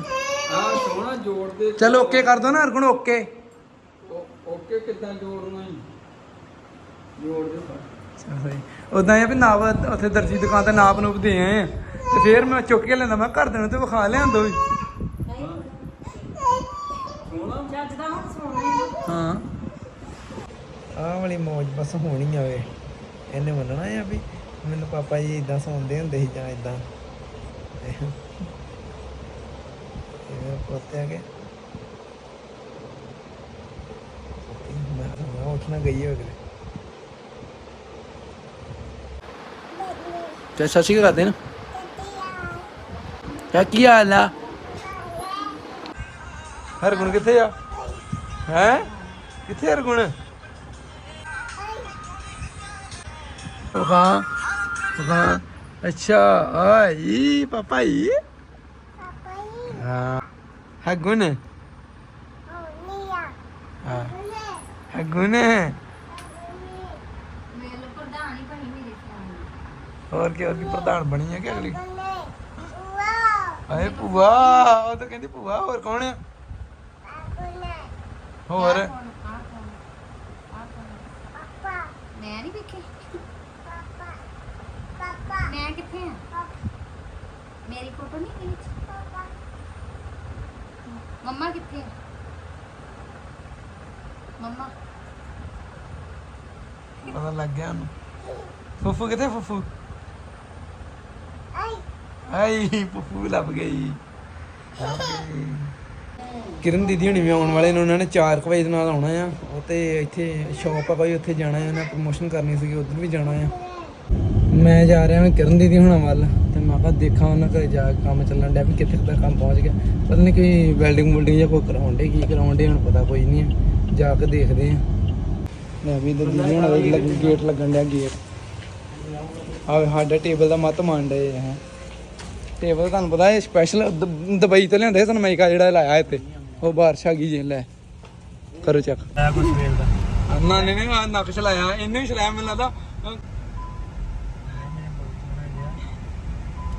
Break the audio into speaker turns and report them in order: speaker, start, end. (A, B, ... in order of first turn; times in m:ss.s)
0:00.5-0:02.6 A
0:01.8-0:03.3 B
0:04.0-0:05.8 A
0:07.2-0:07.9 A
0:08.2-0:14.6 B
0:15.3-0:15.7 A
0:17.2-0:18.3 A
0:18.0-0:19.0 C
0:19.0-0:19.4 B
0:21.0-0:22.7 B
0:23.3-0:26.8 B
0:27.8-0:28.2 B
0:30.3-0:31.2 B
0:34.4-0:36.4 B
0:40.6-0:41.4 B
0:43.5-0:44.3 B
0:46.8-0:47.6 B
0:48.5-0:48.9 B
0:49.5-0:50.1 B
0:53.7-0:54.3 B
0:55.0-0:58.2 B
0:59.7-1:00.2 B
1:00.8-1:01.4 B
1:02.7-1:03.3 C
1:03.8-1:04.2 B
1:04.9-1:05.8 B
1:07.5-1:09.5 C
1:10.1-1:11.8 B
1:13.7-1:16.2 B
1:17.4-1:17.9 C
1:18.5-1:18.9 B
1:18.6-1:19.8 C
1:20.5-1:21.1 C
1:21.7-1:22.9 C
1:25.0-1:26.4 C
1:27.7-1:29.3 C
1:31.0-1:31.9 C
1:34.4-1:34.7 C
1:37.0-1:37.9 B
1:38.8-1:39.7 B
1:42.3-1:44.0 B
1:44.8-1:45.7 B
1:46.6-1:53.6 B
1:54.5-2:04.8 B
2:05.8-2:08.2 B
2:09.7-2:11.6 B
2:12.6-2:17.7 B
2:18.6-2:19.6 B
2:20.3-2:23.2 B
2:24.9-2:25.6 C